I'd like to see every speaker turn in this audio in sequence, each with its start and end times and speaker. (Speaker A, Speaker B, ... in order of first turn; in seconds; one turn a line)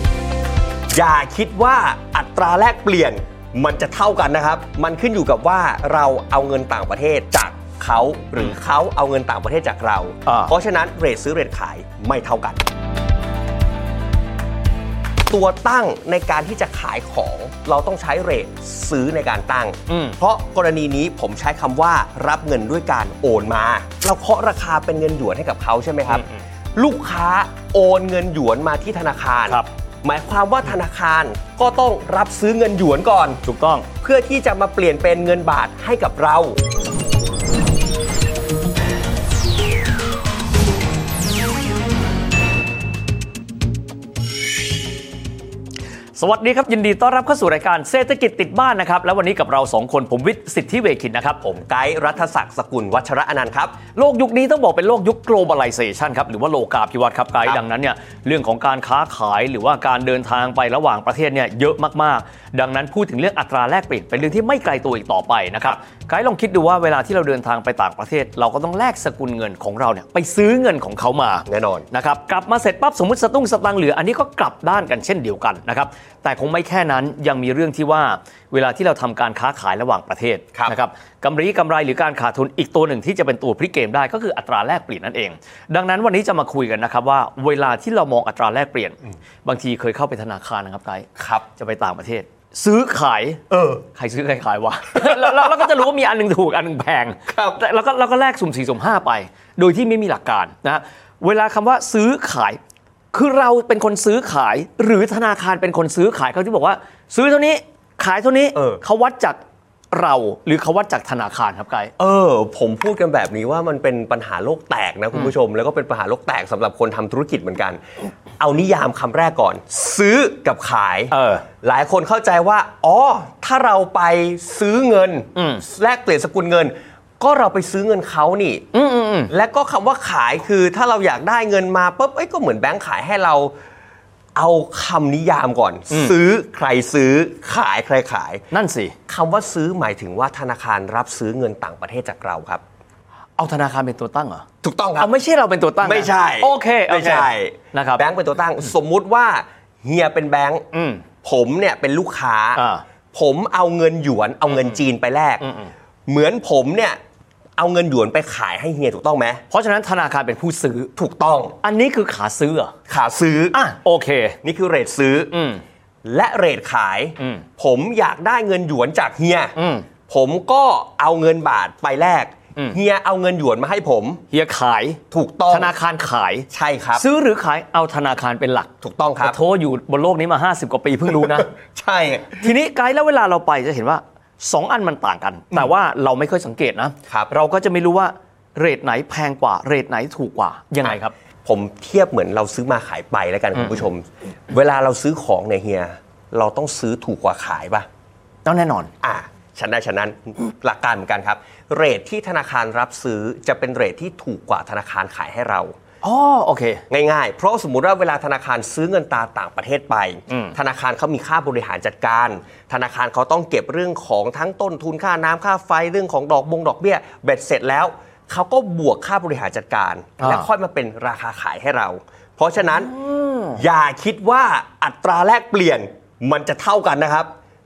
Speaker A: 0.9-12.7
Speaker B: 10.3-10.5
Speaker A: 15.3-33.4
Speaker B: 19.9-20.2
Speaker B: 26.1-26.4
Speaker B: 33.4-33.9
Speaker A: 34.0-36.6
Speaker B: 46.2-51.4
Speaker A: 51.4-53.8
Speaker B: 54.0-93.4
Speaker A: 71.5-71.9
Speaker A: 91.2-91.5
Speaker A: 93.5-93.8
Speaker B: 93.9-102.6
Speaker A: 95.0-95.5
Speaker A: 97.3-97.6
Speaker B: 103.1-109.4
Speaker A: 108.5-108.8
Speaker B: 109.9-111.9
Speaker A: 112.0-117.8
Speaker A: 118.4-128.7
Speaker B: 121.1-121.5
Speaker B: 125.3-125.6
Speaker B: 128.7-129.3
Speaker A: 129.3-133.6
Speaker A: 134.3-138.4
Speaker B: 138.5-139.0
Speaker A: 139.1-142.6
Speaker B: 143.4-144.4
Speaker A: 144.6-145.1
Speaker B: 145.0-148.1
Speaker A: 145.8-150.7
Speaker B: 150.7-151.1
Speaker A: 151.2-155.5
Speaker B: 152.6-152.8
Speaker B: 155.4-155.7
Speaker A: 156.1-157.0
Speaker A: 157.6-159.4
Speaker B: 159.5-160.9
Speaker A: 161.0-161.6
Speaker B: 161.6-162.7
Speaker A: 162.9-163.6
Speaker B: 163.5-164.4
Speaker A: 164.4-165.4
Speaker B: 165.3-165.6
Speaker A: 166.0-169.6
Speaker B: 167.2-167.5
Speaker B: 169.6-169.9
Speaker A: 170.1-174.2
Speaker B: 174.3-181.5
Speaker A: 175.1-175.8
Speaker A: 176.5-177.1
Speaker A: 178.8-179.4
Speaker A: 181.1-182.5
Speaker B: 182.4-191.1
Speaker A: 190.8-197.9
Speaker B: 193.6-193.9
Speaker B: 198.4-198.9
Speaker A: 199.0-205.7
Speaker B: 206.0-206.8
Speaker A: 206.9-222.9
Speaker B: 210.3-210.6
Speaker B: 220.2-220.5
Speaker B: 222.7-223.6
Speaker A: 223.5-227.3